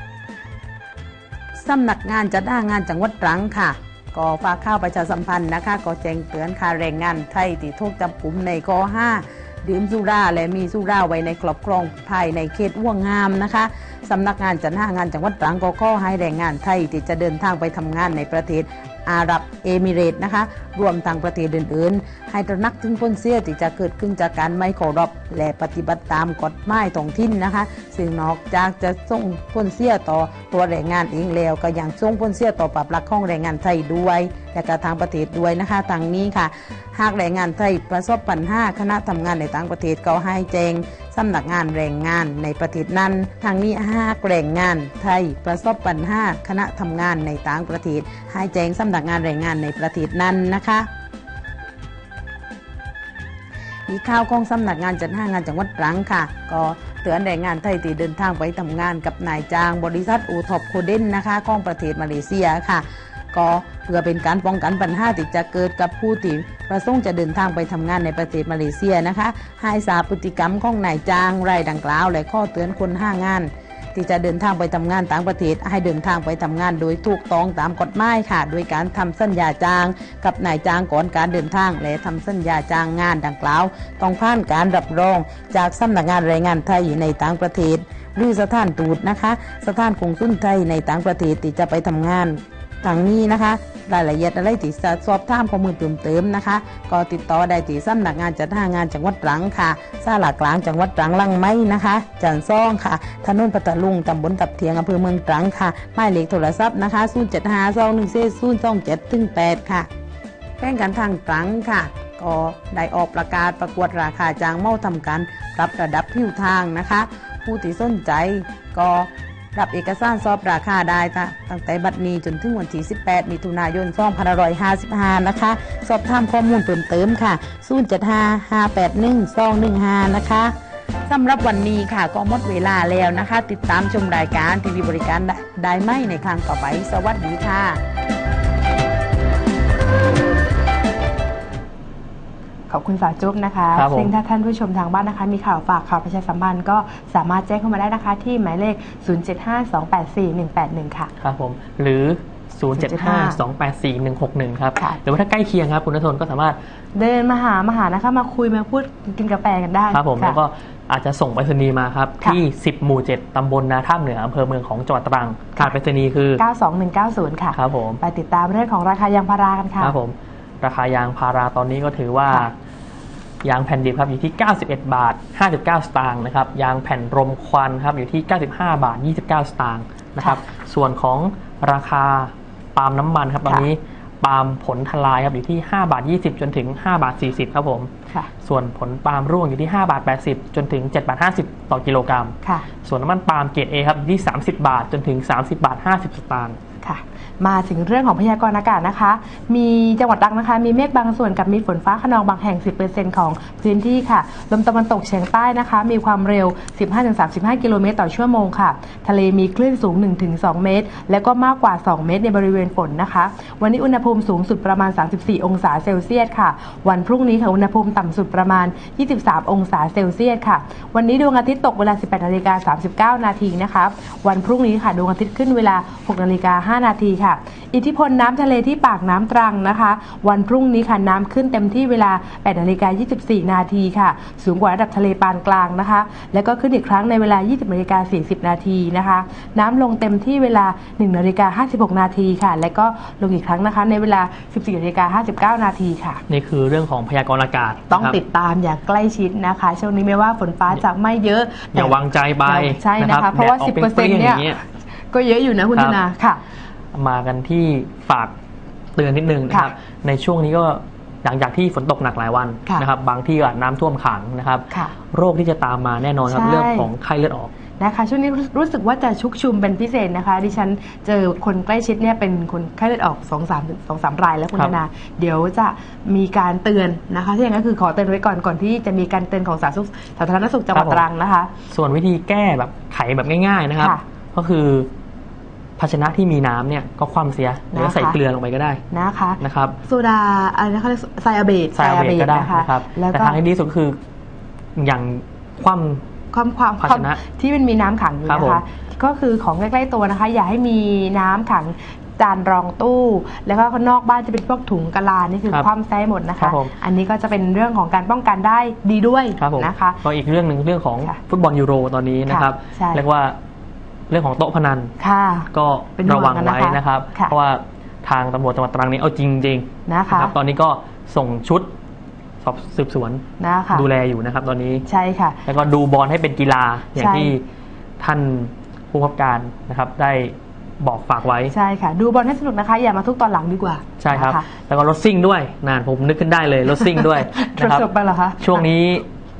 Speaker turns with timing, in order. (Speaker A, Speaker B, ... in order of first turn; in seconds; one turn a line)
Speaker A: 1.6-50.9
Speaker A: 53.9-109.9
Speaker A: 110.6-130.5
Speaker A: 131.1-137.8
Speaker B: 142.7-151.1
Speaker C: 143.7-144.1
Speaker C: 151.2-156.6
Speaker B: 152.7-153.4
Speaker B: 156.9-160.4
Speaker C: 159.9-166.4
Speaker B: 166.4-169.9
Speaker C: 167.5-168.0
Speaker C: 169.8-172.5
Speaker C: 173.4-196.6
Speaker B: 192.4-192.7
Speaker B: 196.8-246.2
Speaker C: 246.3-248.2
Speaker B: 247.9-254.6
Speaker C: 251.7-254.6
Speaker B: 255.1-256.4
Speaker C: 255.7-256.0
Speaker C: 256.9-258.3
Speaker C: 258.9-267.5
Speaker B: 266.3-266.9
Speaker B: 267.8-281.5
Speaker C: 280.7-281.0
Speaker C: 281.7-284.9
Speaker C: 285.8-288.8
Speaker B: 287.7-288.2
Speaker B: 288.9-293.4
Speaker C: 289.4-289.8
Speaker C: 291.7-294.0
Speaker C: 294.8-296.0
Speaker B: 296.3-310.0
Speaker C: 296.8-297.2
Speaker C: 298.3-298.6
Speaker C: 306.4-306.7
Speaker C: 309.4-313.4
Speaker B: 312.3-313.0
Speaker C: 314.1-314.9
Speaker B: 315.0-317.3
Speaker C: 315.5-321.7
Speaker B: 319.9-320.3
Speaker C: 322.4-324.8
Speaker B: 323.4-323.9
Speaker B: 324.8-325.4
Speaker C: 325.4-327.4
Speaker B: 326.9-327.4
Speaker C: 328.0-331.5
Speaker B: 331.5-334.4
Speaker C: 334.0-337.9
Speaker B: 336.9-338.6
Speaker C: 338.4-339.1